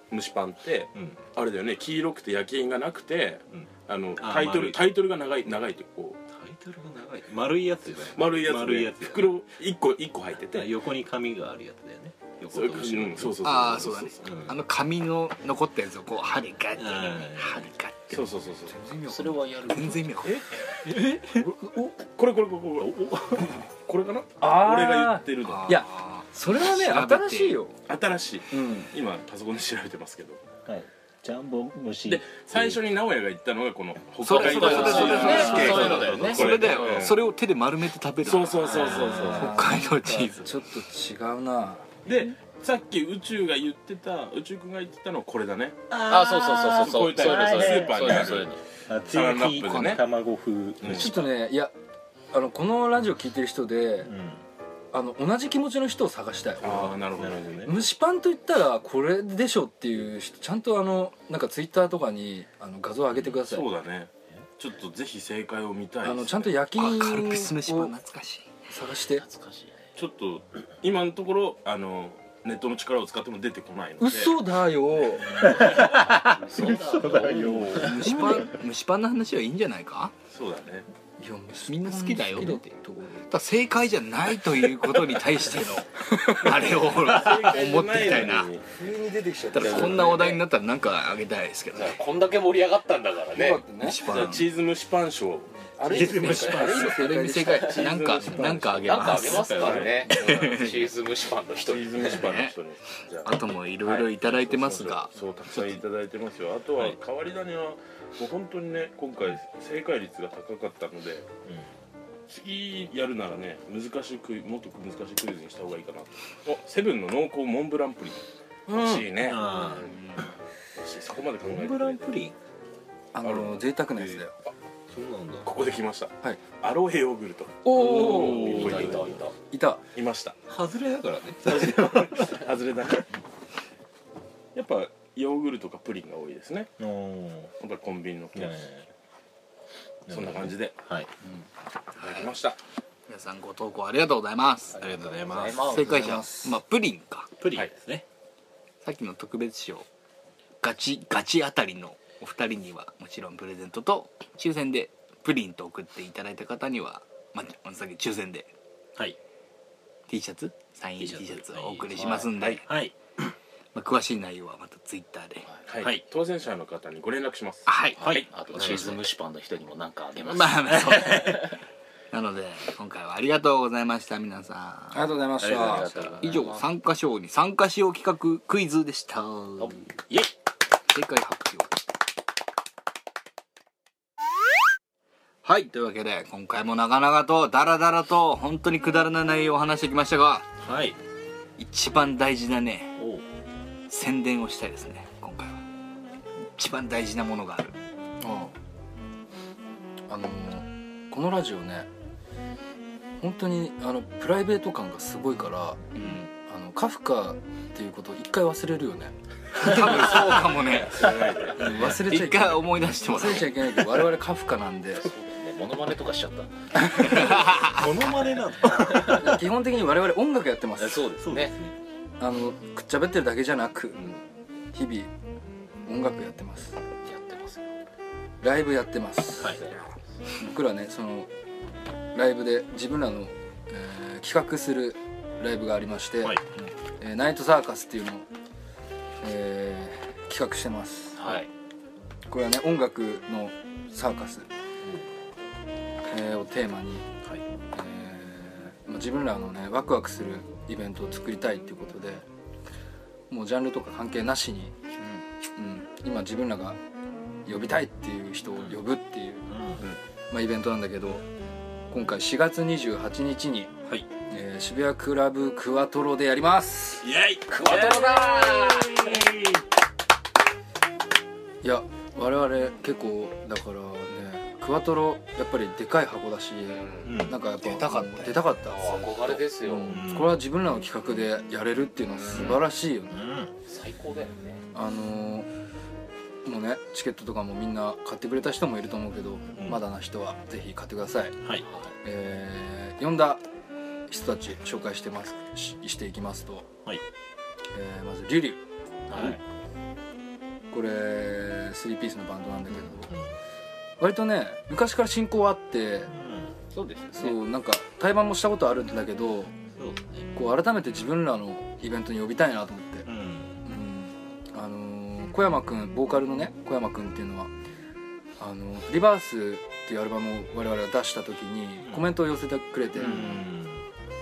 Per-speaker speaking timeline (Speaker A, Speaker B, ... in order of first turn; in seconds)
Speaker A: 0.1-6.2, 8.0-10.7, 12.4-14.3, 18.1-18.8, 22.2-25.8, 27.9-30.4, 32.0-37.2, 38.2-39.5, 42.0-45.8, 46.8-48.5, 49.1-50.0, 50.8-51.1, 56.6-57.8, 63.3-66.6, 70.0-74.4, 77.0-78.0, 80.3-80.9, 86.6-88.7, 89.6-90.3, 94.0-96.7, 97.5-100.5, 101.6-111.3, 112.3-119.8, 120.8-122.2, 123.2-124.3, 125.5-129.3, 129.9-130.4, 131.5-133.1, 134.6-136.7, 137.6-138.6, 140.1-140.8, 141.9-142.6, 162.3-162.6, 165.7-168.3, 210.3-211.8, 267.0-269.3
Speaker B: 0.9-1.2, 3.5-5.0, 6.3-9.3, 10.5-14.6, 16.8-17.6, 20.9-21.2, 23.1-23.5, 30.7-32.8, 34.7-36.6, 38.7-39.4, 45.9-51.2, 54.0-54.4, 57.1-57.8, 75.5-78.4, 95.9-97.2, 98.3-100.0, 119.2-120.0, 121.4-122.3, 124.9-125.5, 127.9-129.2, 130.5-132.4, 136.8-137.5, 138.3-138.9, 140.1-141.1, 144.8-145.7, 147.4-148.0, 161.0-162.9, 168.0-169.0, 170.8-171.4, 175.4-176.2, 190.6-191.0, 193.0-193.2, 217.1-219.4, 221.2-221.8, 259.5-259.8, 277.0-277.4, 279.9-280.4, 282.4-283.5, 289.6-289.8, 306.1-306.5, 309.8-310.3, 313.1-313.6, 323.0-323.8
Speaker C: 13.4-21.1, 25.4-27.6, 34.3-40.5, 66.8-68.5, 77.8-80.1, 81.7-82.7, 83.3-88.5, 89.5-92.0, 93.8-94.5, 96.2-99.5, 100.1-100.9, 102.0-102.6, 103.2-105.1, 143.1-144.9, 145.6-147.3, 148.8-149.9, 150.6-158.5, 160.1-162.6, 163.7-165.5, 167.7-169.0, 170.2-171.6, 172.1-175.1, 176.2-179.8, 180.9-181.7, 185.4-190.5, 191.6-193.0, 193.9-195.6, 196.6-197.8, 209.6-211.2, 211.8-213.8, 216.9-217.8, 277.6-278.5
Speaker D: 19.1-20.1, 34.3-37.2, 46.0-48.6, 69.2-69.8, 75.4-78.4, 89.8-90.3, 91.7-93.6, 96.2-96.8, 98.8-102.2, 128.1-129.3, 144.8-146.2, 168.3-171.4, 175.4-176.7, 215.0-217.3, 220.8-221.6, 227.1-227.7, 229.4-229.8, 241.2-241.5, 267.5-269.2, 276.7-277.2, 278.7-280.0, 282.1-282.6, 283.7-284.6, 291.6-291.9, 299.1-299.4, 306.7-307.4, 323.0-323.4
Speaker E: 21.2-21.9, 24.4-27.8, 28.5-28.9, 34.3-36.0, 38.7-42.0, 50.9-51.7, 52.3-54.1, 54.9-57.0, 57.7-63.7, 66.0-67.9, 68.7-69.2, 74.0-75.4, 81.2-83.3, 88.8-90.3, 93.3-94.1, 95.7-97.9, 118.7-119.1, 123.1-124.3, 127.6-128.7, 129.5-129.8, 145.8-146.6, 174.9-176.1, 198.2-198.6, 200.1-201.9, 203.2-210.3, 211.6-215.1, 219.0-221.1, 222.2-224.0, 224.7-225.1, 225.9-226.8, 228.4-229.7, 230.4-231.3, 232.1-236.4, 237.0-238.3, 239.2-241.3, 242.3-244.5, 246.1-247.1, 247.7-252.3, 253.3-254.8, 255.6-256.8, 257.5-259.6, 260.3-261.2, 261.9-263.7, 264.3-267.1, 271.6-283.2, 284.7-285.5, 286.4-291.4, 292.0-293.4, 294.1-296.7, 297.7-298.6, 300.7-303.1, 304.0-306.1, 307.1-309.6, 310.3-313.1, 313.6-317.5, 318.4-323.4